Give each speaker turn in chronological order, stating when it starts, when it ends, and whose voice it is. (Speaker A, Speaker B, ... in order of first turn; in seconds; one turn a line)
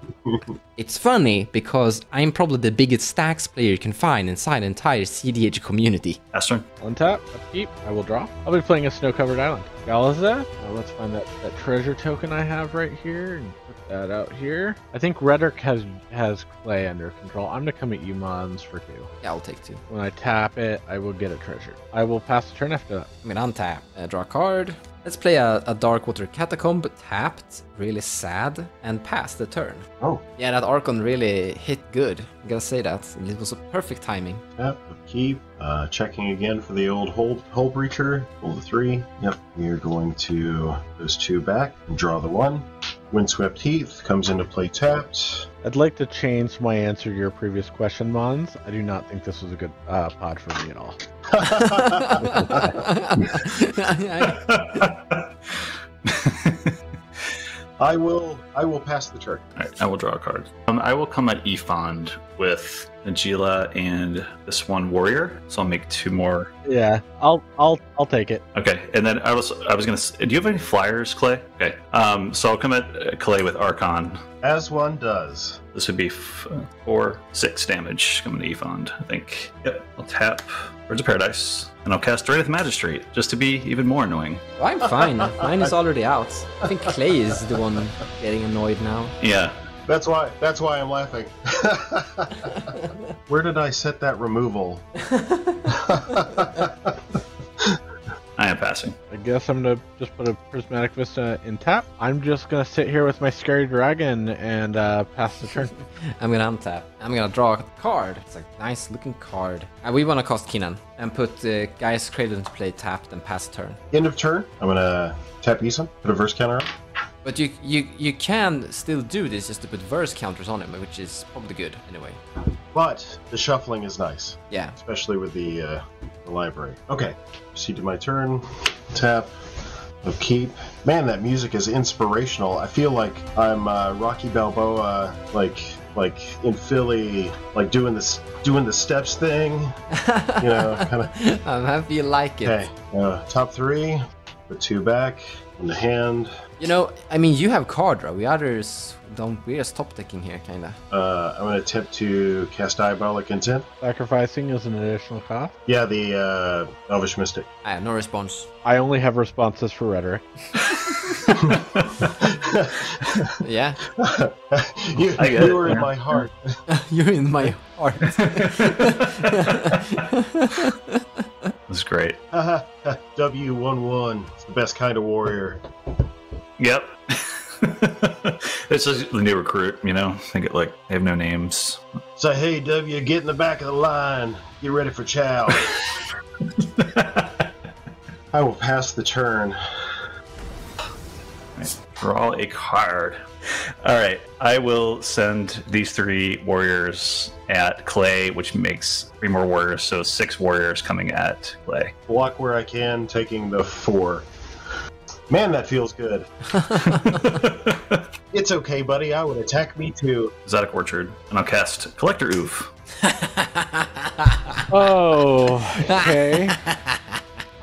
Speaker A: 0.8-6.2
Speaker B: 6.3-6.6
Speaker C: 6.8-19.1
Speaker A: 19.2-19.8
Speaker C: 19.9-23.1
Speaker A: 23.2-29.9
Speaker A: 30.4-34.4
Speaker D: 34.6-45.5
Speaker C: 45.6-51.0
Speaker D: 51.3-52.8
Speaker A: 51.8-54.4
Speaker B: 54.2-56.7
Speaker D: 57.8-59.4
Speaker B: 59.5-66.5
Speaker C: 66.6-68.4
Speaker B: 68.5-74.2
Speaker D: 74.4-75.6
Speaker B: 75.7-84.4
Speaker A: 84.6-89.2
Speaker B: 89.2-89.5
Speaker D: 89.8-92.7
Speaker D: 93.3-94.8
Speaker A: 95.1-95.5
Speaker D: 95.7-97.8
Speaker B: 98.4-98.9
Speaker C: 99.1-105.7
Speaker A: 106.2-113.8
Speaker D: 113.9-116.7
Speaker A: 117.2-122.2
Speaker D: 122.7-129.3
Speaker A: 124.5-124.7
Speaker D: 130.0-139.7
Speaker A: 139.9-142.7
Speaker D: 140.4-141.2
Speaker D: 142.4-146.3
Speaker A: 146.6-150.8
Speaker D: 150.9-153.7
Speaker C: 153.8-155.5
Speaker D: 155.7-157.5
Speaker A: 157.6-158.5
Speaker C: 158.6-160.2
Speaker B: 161.8-162.1
Speaker D: 162.2-163.3
Speaker A: 163.4-163.8
Speaker D: 164.0-166.4
Speaker B: 165.2-165.9
Speaker A: 166.7-171.2
Speaker B: 168.2-169.2
Speaker B: 171.7-172.2
Speaker D: 172.3-175.6
Speaker B: 176.6-182.0
Speaker D: 182.2-185.8
Speaker B: 186.8-187.4
Speaker D: 188.3-189.6
Speaker B: 191.6-193.2
Speaker B: 193.8-201.9
Speaker D: 202.1-204.2
Speaker D: 205.3-206.3
Speaker B: 206.9-208.0
Speaker D: 208.3-210.3
Speaker B: 210.4-212.7
Speaker A: 213.0-214.5
Speaker C: 214.7-216.6
Speaker A: 216.7-217.0